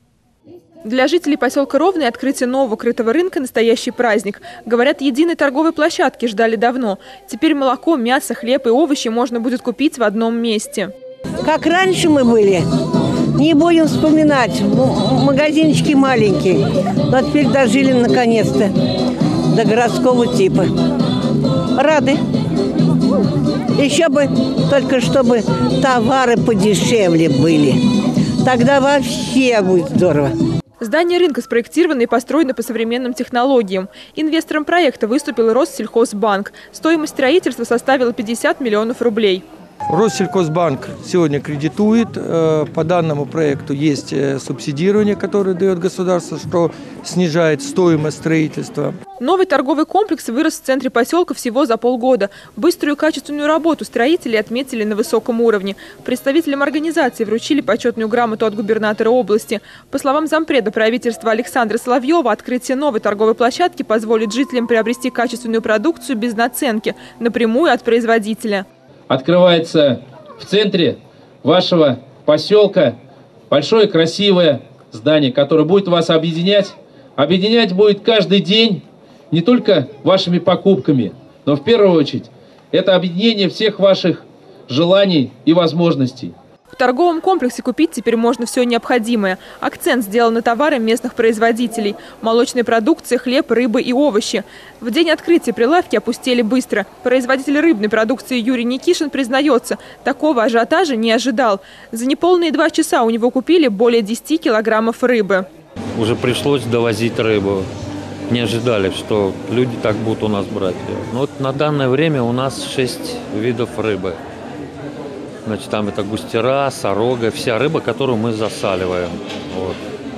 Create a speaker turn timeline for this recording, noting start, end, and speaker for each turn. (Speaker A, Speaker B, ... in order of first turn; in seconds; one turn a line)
Speaker A: 0.8-10.9
Speaker B: 11.4-12.7
Speaker B: 13.4-18.7
Speaker B: 19.5-20.7
Speaker B: 21.8-22.2
Speaker B: 23.8-27.8
Speaker B: 28.4-30.3
Speaker A: 30.8-39.5
Speaker C: 39.9-49.0
Speaker A: 49.2-68.7
Speaker D: 69.1-73.0
Speaker D: 73.5-86.3
Speaker A: 86.7-105.5
Speaker E: 106.0-107.7
Speaker E: 108.3-114.2
Speaker E: 115.5-119.8